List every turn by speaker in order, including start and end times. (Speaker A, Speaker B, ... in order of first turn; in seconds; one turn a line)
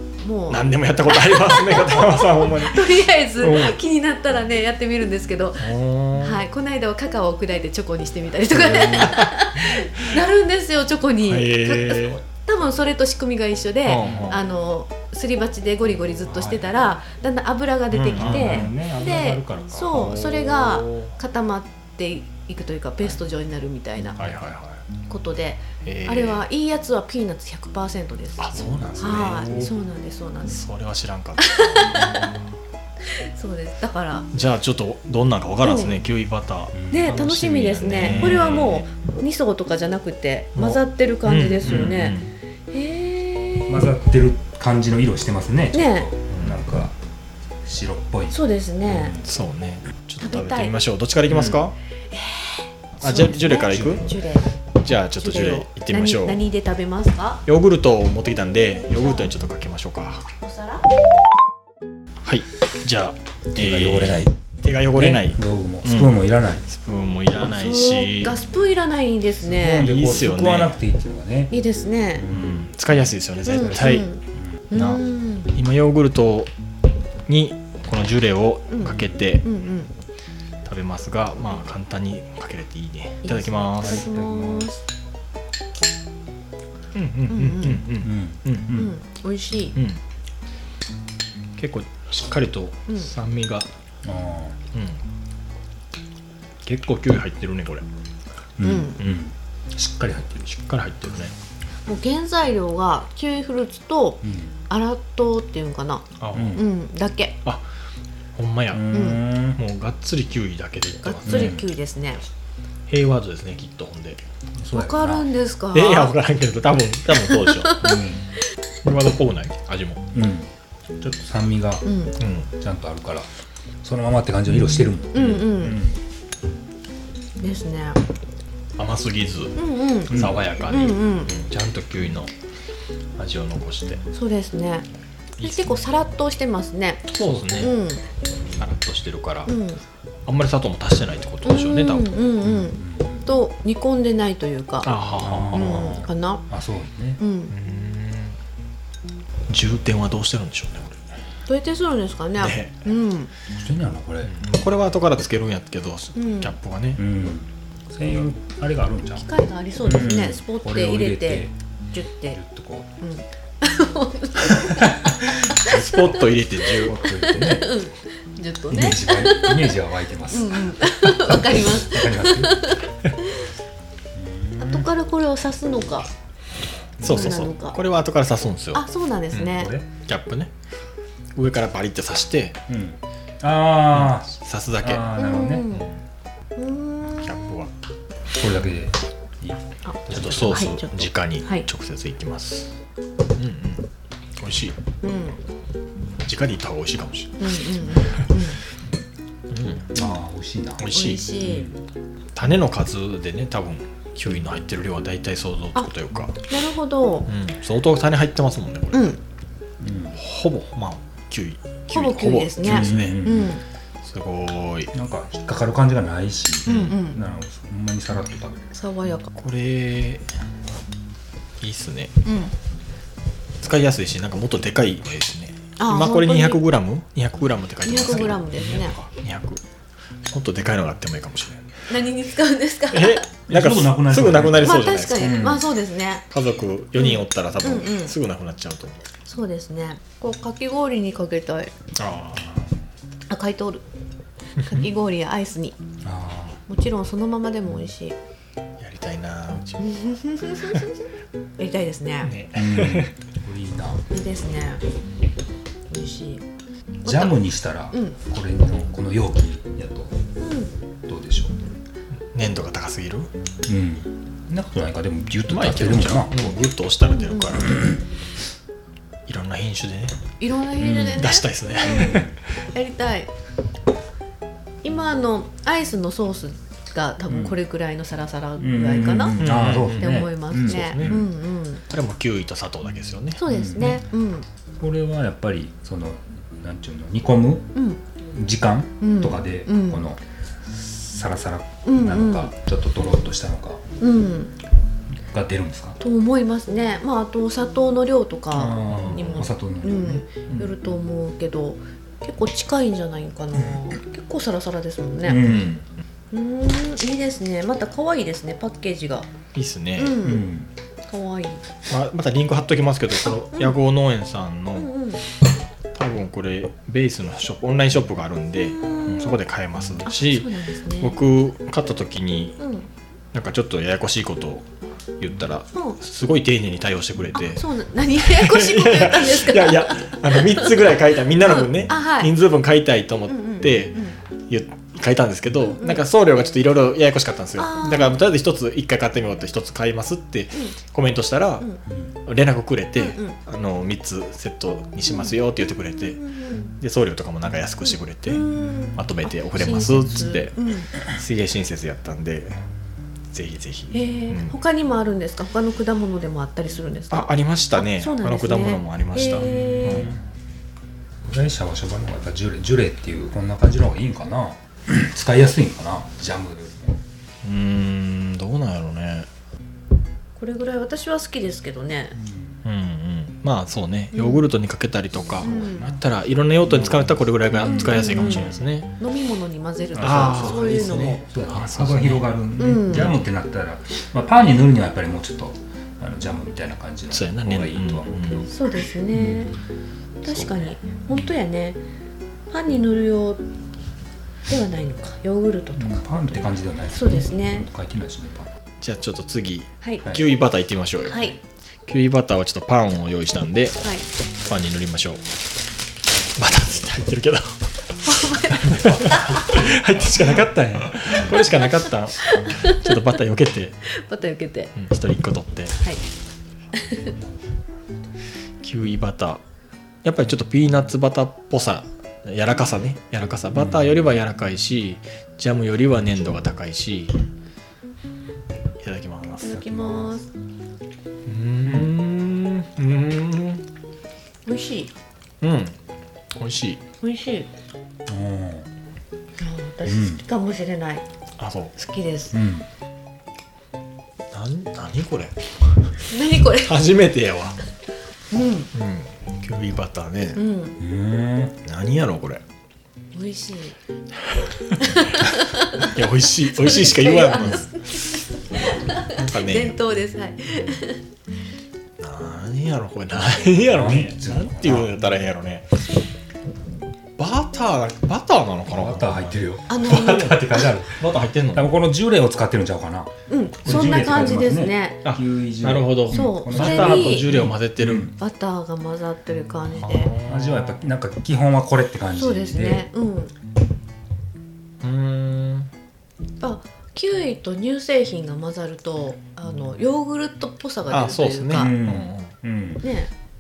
Speaker A: 0.2-24.2
Speaker B: 0.5-3.1
Speaker C: 3.4-3.8
Speaker B: 5.6-6.4
Speaker C: 8.5-9.2
Speaker B: 8.9-9.5
Speaker B: 11.2-12.2
Speaker B: 13.8-14.4
Speaker C: 14.0-14.4
Speaker C: 16.2-17.0
Speaker B: 17.9-18.7
Speaker C: 18.1-20.1
Speaker B: 19.9-21.2
Speaker B: 24.2-24.9
Speaker A: 25.1-30.6
Speaker B: 25.8-26.4
Speaker B: 28.4-29.7
Speaker C: 28.6-29.7
Speaker B: 30.4-32.2
Speaker A: 31.4-32.3
Speaker A: 33.3-34.3
Speaker B: 34.3-38.9
Speaker A: 35.6-36.0
Speaker C: 36.7-37.2
Speaker A: 36.9-42.2
Speaker C: 38.0-38.6
Speaker B: 40.5-42.3
Speaker C: 41.6-42.1
Speaker A: 42.7-43.9
Speaker C: 43.7-47.0
Speaker A: 45.7-46.1
Speaker B: 46.3-46.6
Speaker C: 47.6-49.2
Speaker A: 48.3-49.2
Speaker B: 49.1-51.8
Speaker A: 50.2-50.7
Speaker C: 51.3-51.6
Speaker A: 52.1-54.5
Speaker C: 53.0-54.2
Speaker B: 53.0-54.0
Speaker B: 54.8-56.4
Speaker A: 55.2-57.4
Speaker B: 57.5-60.2
Speaker A: 58.8-59.3
Speaker A: 60.4-60.9
Speaker B: 62.2-68.3
Speaker C: 63.5-64.4
Speaker C: 65.0-66.7
Speaker A: 67.4-69.9
Speaker C: 69.4-71.5
Speaker B: 69.8-70.8
Speaker A: 71.5-72.3
Speaker C: 72.2-72.7
Speaker B: 72.3-74.1
Speaker A: 73.5-75.5
Speaker C: 73.5-75.0
Speaker B: 75.5-76.5
Speaker B: 77.3-79.5
Speaker A: 78.7-79.9
Speaker B: 80.7-84.1
Speaker A: 83.2-84.8
Speaker C: 83.8-84.7
Speaker B: 87.0-88.7
Speaker A: 87.3-87.9
Speaker C: 88.0-88.9
Speaker A: 88.7-89.8
Speaker B: 91.6-93.7
Speaker C: 94.0-94.6
Speaker B: 94.7-95.0
Speaker B: 96.6-97.8
Speaker C: 98.6-100.5
Speaker A: 98.6-99.0
Speaker B: 100.4-101.3
Speaker A: 101.9-107.4
Speaker C: 104.2-104.6
Speaker B: 106.2-106.6
Speaker C: 106.3-106.7
Speaker B: 108.3-108.9
Speaker C: 108.7-109.6
Speaker A: 108.9-109.2
Speaker B: 109.5-111.6
Speaker A: 111.0-112.3
Speaker C: 111.2-111.7
Speaker B: 112.9-114.2
Speaker C: 114.6-115.3
Speaker A: 114.7-116.2
Speaker B: 115.7-117.8
Speaker A: 117.2-118.1
Speaker C: 117.8-118.2
Speaker B: 118.8-120.0
Speaker C: 120.1-121.9
Speaker A: 121.8-122.2
Speaker B: 122.2-122.5
Speaker C: 122.5-123.3
Speaker C: 123.8-126.0
Speaker B: 124.5-125.5
Speaker A: 125.1-125.8
Speaker A: 127.4-128.0
Speaker B: 128.8-129.6
Speaker A: 129.6-131.3
Speaker B: 130.1-132.3
Speaker C: 130.1-130.4
Speaker B: 133.2-134.0
Speaker A: 134.1-134.9
Speaker B: 135.4-135.7
Speaker A: 135.4-138.0
Speaker B: 137.1-137.7
Speaker B: 138.6-139.6
Speaker A: 139.5-139.8
Speaker B: 140.3-142.1
Speaker A: 141.4-146.5
Speaker C: 142.4-143.3
Speaker B: 144.8-146.0
Speaker C: 145.2-147.2
Speaker A: 147.2-147.5
Speaker B: 147.5-148.4
Speaker B: 149.5-151.1
Speaker A: 151.5-153.3
Speaker B: 152.4-152.8
Speaker C: 153.5-154.3
Speaker B: 154.2-157.0
Speaker A: 156.2-156.6
Speaker C: 157.0-159.3
Speaker A: 159.1-162.4
Speaker C: 159.8-161.5
Speaker C: 162.3-162.9
Speaker A: 163.0-173.4
Speaker B: 165.6-167.4
Speaker C: 166.9-167.7
Speaker C: 168.7-172.6
Speaker C: 174.1-174.9
Speaker A: 174.6-176.1
Speaker C: 177.0-177.5
Speaker A: 177.0-177.8
Speaker B: 177.0-180.5
Speaker A: 178.7-179.7
Speaker C: 179.4-179.9
Speaker B: 181.3-182.6
Speaker C: 182.7-185.7
Speaker B: 183.9-185.1
Speaker A: 185.2-185.9
Speaker B: 185.7-186.0
Speaker A: 186.6-187.4
Speaker B: 187.2-187.7
Speaker C: 188.4-190.8
Speaker A: 189.8-191.7
Speaker B: 190.1-192.7
Speaker B: 193.4-193.8
Speaker B: 194.4-194.8
Speaker A: 195.0-195.4
Speaker B: 196.2-197.6
Speaker A: 197.4-198.6
Speaker B: 199.5-199.9
Speaker C: 199.8-200.9
Speaker B: 200.8-201.2
Speaker A: 200.9-201.7
Speaker C: 201.4-201.8
Speaker B: 202.3-206.4
Speaker A: 206.5-207.3
Speaker B: 207.3-209.2
Speaker A: 208.9-209.2
Speaker C: 209.8-210.2
Speaker B: 210.1-213.3
Speaker A: 211.9-213.6
Speaker C: 212.6-213.5
Speaker B: 214.0-214.9
Speaker C: 214.9-218.7
Speaker B: 216.7-216.9
Speaker A: 216.7-217.2
Speaker A: 218.7-219.3
Speaker B: 219.3-220.3
Speaker B: 221.6-222.1
Speaker A: 222.2-222.5
Speaker B: 223.6-228.5
Speaker A: 225.8-226.6
Speaker A: 227.8-229.0
Speaker C: 228.0-229.1
Speaker B: 229.1-229.6
Speaker B: 230.3-231.8
Speaker A: 231.9-233.3
Speaker B: 232.9-235.4
Speaker C: 233.5-235.7
Speaker A: 234.6-236.3
Speaker B: 236.3-239.1
Speaker A: 237.0-238.2
Speaker A: 239.2-241.7
Speaker B: 242.0-242.7
Speaker A: 243.3-243.8
Speaker A: 244.7-245.8
Speaker C: 246.0-246.6
Speaker A: 246.7-248.2
Speaker B: 248.8-250.9
Speaker A: 249.8-250.9
Speaker A: 251.6-252.3
Speaker B: 252.2-253.1
Speaker C: 252.5-254.1
Speaker A: 254.1-254.8
Speaker A: 255.9-256.4
Speaker A: 257.0-258.2
Speaker C: 257.0-260.1
Speaker A: 260.4-260.7
Speaker C: 261.1-261.6
Speaker B: 262.3-263.3
Speaker C: 263.7-266.6
Speaker B: 265.5-267.8
Speaker A: 267.0-267.6
Speaker C: 267.6-268.0
Speaker B: 269.3-270.2
Speaker A: 270.4-273.3
Speaker C: 270.8-272.3
Speaker B: 271.2-272.3
Speaker A: 274.8-281.8
Speaker C: 278.6-281.3
Speaker B: 279.4-281.2
Speaker B: 281.9-283.4
Speaker A: 283.4-284.5
Speaker C: 283.5-284.1
Speaker C: 284.8-287.7
Speaker A: 287.7-288.0
Speaker C: 288.3-293.8
Speaker A: 289.0-290.1
Speaker A: 291.9-292.5
Speaker A: 294.0-294.6
Speaker C: 295.1-296.0
Speaker A: 296.0-305.4
Speaker C: 298.5-300.7
Speaker C: 305.2-305.9
Speaker A: 306.3-309.3
Speaker B: 309.5-310.2
Speaker A: 310.0-310.5
Speaker C: 310.2-310.7
Speaker A: 311.1-311.6
Speaker B: 311.9-314.9
Speaker A: 313.2-313.8
Speaker A: 314.8-315.2
Speaker B: 315.9-322.6
Speaker A: 318.6-319.4
Speaker A: 320.1-321.2
Speaker A: 322.6-322.9
Speaker B: 323.3-324.7
Speaker B: 325.2-341.7
Speaker A: 327.4-332.3
Speaker A: 333.3-334.2
Speaker A: 335.6-336.1
Speaker A: 337.6-338.2
Speaker C: 341.9-342.2
Speaker B: 342.2-346.2
Speaker A: 342.9-343.4
Speaker A: 345.1-345.4
Speaker A: 346.0-346.8
Speaker B: 346.8-348.4
Speaker A: 347.8-350.9
Speaker B: 349.0-352.6
Speaker C: 349.6-350.3
Speaker B: 353.3-354.6
Speaker A: 353.9-360.1
Speaker B: 357.1-360.1
Speaker C: 359.4-360.2
Speaker C: 361.2-367.0
Speaker B: 367.4-369.3
Speaker A: 370.4-372.2
Speaker C: 372.1-372.6
Speaker B: 372.6-378.9
Speaker A: 374.1-374.5
Speaker C: 375.3-376.1
Speaker A: 375.4-375.9
Speaker C: 376.6-378.7
Speaker A: 377.6-381.2
Speaker C: 379.9-388.5
Speaker B: 380.0-382.3
Speaker A: 382.6-383.1
Speaker B: 387.1-388.5
Speaker A: 388.5-389.6
Speaker C: 389.1-389.5
Speaker A: 390.2-391.8
Speaker C: 390.2-391.2
Speaker A: 392.5-393.4
Speaker A: 394.5-397.7
Speaker C: 395.8-398.5
Speaker B: 398.8-401.3
Speaker A: 399.8-400.1
Speaker A: 401.1-401.4
Speaker B: 401.9-403.8
Speaker A: 403.8-404.1
Speaker B: 404.4-405.2
Speaker B: 406.4-407.6
Speaker A: 408.0-409.5
Speaker B: 408.6-413.8
Speaker A: 412.2-413.0
Speaker A: 413.9-414.7
Speaker B: 414.8-415.8
Speaker A: 416.8-417.1
Speaker B: 418.6-419.4
Speaker B: 420.0-427.1
Speaker C: 423.6-424.0
Speaker B: 428.8-429.6
Speaker A: 429.4-430.3
Speaker C: 429.5-430.2
Speaker B: 431.3-433.6
Speaker C: 431.6-431.9
Speaker A: 434.5-434.9
Speaker B: 435.4-435.8
Speaker B: 436.4-436.8
Speaker A: 437.0-437.5
Speaker C: 438.1-438.7
Speaker A: 439.4-441.0
Speaker C: 439.9-440.2
Speaker B: 441.4-441.9
Speaker A: 441.9-442.4
Speaker C: 442.3-442.7
Speaker B: 444.3-445.4
Speaker A: 446.1-446.8
Speaker B: 446.6-447.6
Speaker A: 448.3-448.7
Speaker B: 448.7-450.4
Speaker A: 450.4-450.8
Speaker C: 450.8-451.6
Speaker B: 451.6-452.4
Speaker A: 453.1-453.8
Speaker A: 454.8-455.7
Speaker B: 455.8-458.2
Speaker A: 456.5-461.0
Speaker B: 458.9-459.8
Speaker B: 462.0-465.7
Speaker C: 463.4-464.9
Speaker B: 467.2-471.7
Speaker C: 468.7-478.1
Speaker A: 469.7-470.8
Speaker A: 473.3-475.1
Speaker B: 475.0-478.1
Speaker A: 476.1-477.3
Speaker A: 478.1-480.1
Speaker B: 479.8-480.8
Speaker C: 480.3-482.9
Speaker A: 482.1-483.3
Speaker B: 484.8-485.7
Speaker A: 486.4-491.7
Speaker B: 490.9-492.3
Speaker C: 491.5-492.8
Speaker A: 492.8-493.1